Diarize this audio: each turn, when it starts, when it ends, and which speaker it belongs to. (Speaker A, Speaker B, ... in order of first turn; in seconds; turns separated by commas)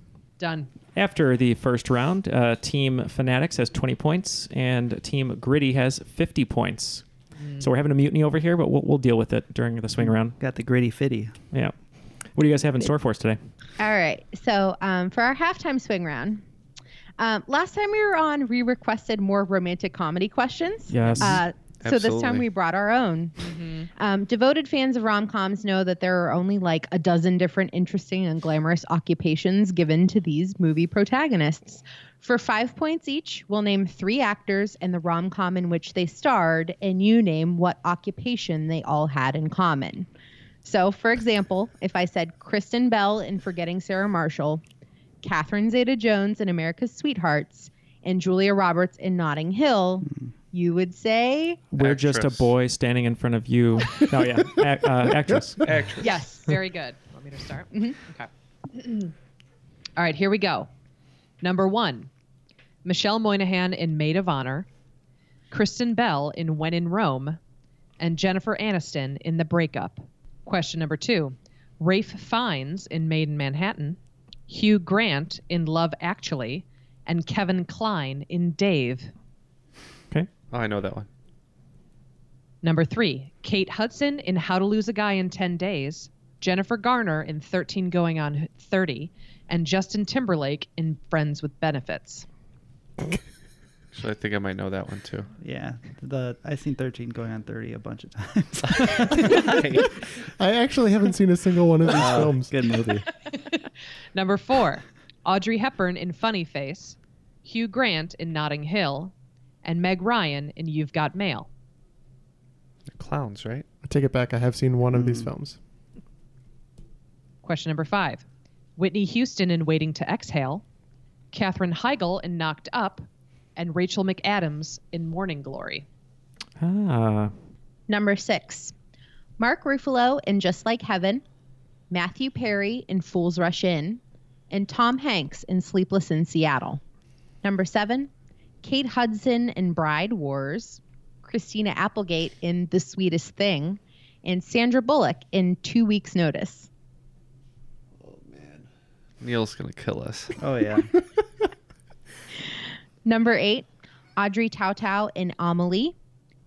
Speaker A: 0.4-0.7, Speaker B: 0.9-7.0, Speaker A: 7.4-7.7, Speaker B: 7.6-10.4, Speaker C: 10.0-11.4, Speaker B: 12.3-13.4, Speaker D: 13.8-16.4, Speaker D: 17.2-23.4, Speaker B: 20.9-21.4, Speaker E: 21.8-22.4, Speaker A: 23.4-23.9, Speaker D: 24.0-40.1, Speaker D: 40.6-44.6, Speaker D: 45.2-51.6, Speaker B: 51.7-55.6, Speaker E: 51.8-52.5, Speaker E: 55.6-56.3, Speaker A: 56.0-59.1, Speaker A: 60.0-60.7, Speaker A: 61.4-62.1, Speaker A: 62.8-64.7, Speaker A: 65.5-67.4, Speaker A: 68.0-74.0, Speaker A: 74.5-79.1, Speaker E: 80.5-81.1, Speaker A: 82.6-92.3, Speaker E: 93.9-95.3, Speaker C: 95.4-99.5, Speaker E: 98.7-99.9, Speaker F: 100.4-102.5, Speaker C: 101.9-103.1, Speaker A: 103.3-109.1, Speaker A: 109.6-111.5, Speaker E: 112.9-113.7, Speaker F: 113.8-115.6, Speaker C: 114.9-115.3, Speaker A: 117.4-118.2, Speaker A: 118.8-120.6, Speaker A: 121.3-125.8, Speaker B: 126.6-127.3, Speaker D: 127.9-128.7, Speaker D: 129.4-131.2, Speaker D: 131.9-134.0, Speaker D: 134.5-136.8, Speaker D: 137.4-138.1, Speaker D: 138.6-146.7, Speaker E: 149.2-150.4, Speaker C: 150.4-150.9, Speaker D: 153.1-155.9